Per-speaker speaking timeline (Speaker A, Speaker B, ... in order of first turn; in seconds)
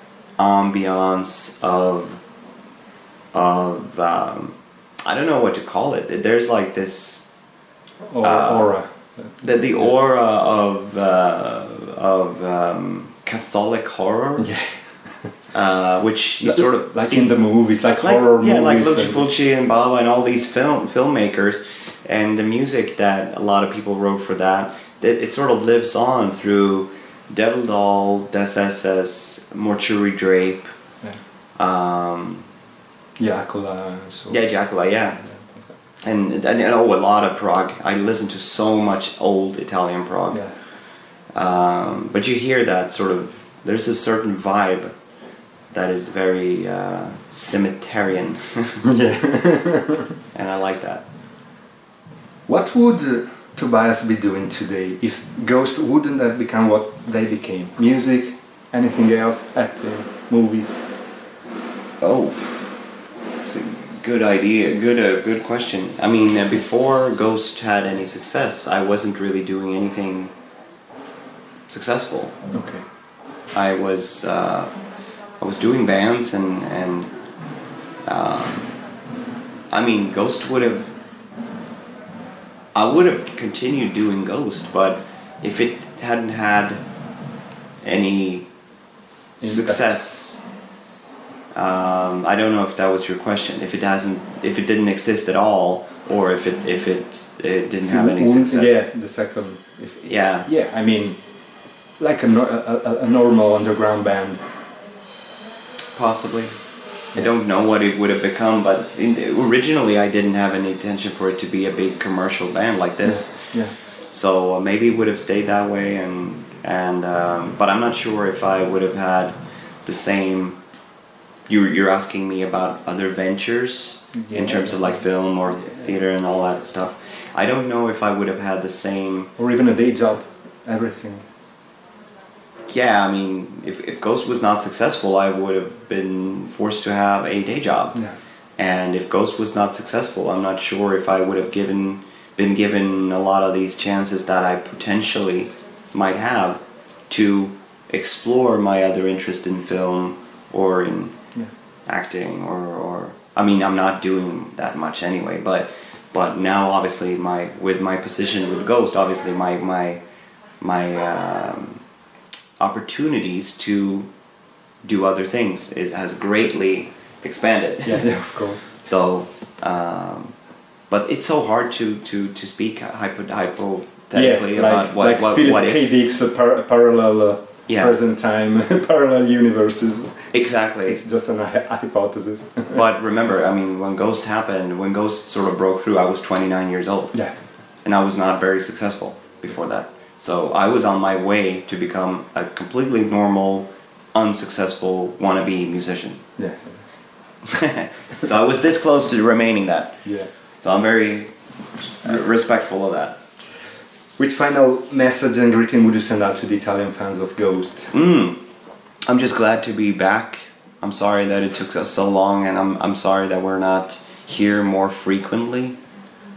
Speaker A: 0.4-2.2, 3.3-7.3, 8.2-8.8, 9.4-14.5, 15.5-17.3, 18.0-30.7, 31.6-32.5, 34.3-35.2, 36.0-40.4, 41.3-44.9, 45.7-48.8, 50.3-51.0, 62.0-62.8, 63.4-70.3, 71.7-72.3, 73.5-74.7, 75.4-77.1, 78.1-78.7, 79.7-80.9, 82.8-86.8, 87.8-88.5, 89.4-90.4, 91.6-98.8, 100.1-100.5, 106.0-106.5, 107.1-113.6, 114.1-119.3, 119.8-120.6, 121.5-129.3, 132.7-138.0, 138.6-151.2, 151.9-160.0, 160.6-161.8, 162.6-164.1, 164.8-170.3, 170.9-175.9, 177.7-177.9, 180.3-181.0, 182.7-187.2, 187.8-196.2, 197.5-200.0, 200.6-201.3, 202.0-203.2, 207.9-208.4, 209.1-215.8
Speaker B: 8.1-9.3, 14.4-15.3, 16.4-19.3, 33.2-34.5, 48.8-50.1, 52.5-60.9, 72.5-72.8, 89.4-90.0, 97.8-101.2, 102.0-104.4, 113.0-113.7, 124.2-125.0, 129.4-131.2, 167.8-168.6, 174.1-182.8, 196.4-196.8, 200.1-200.3, 204.2-207.9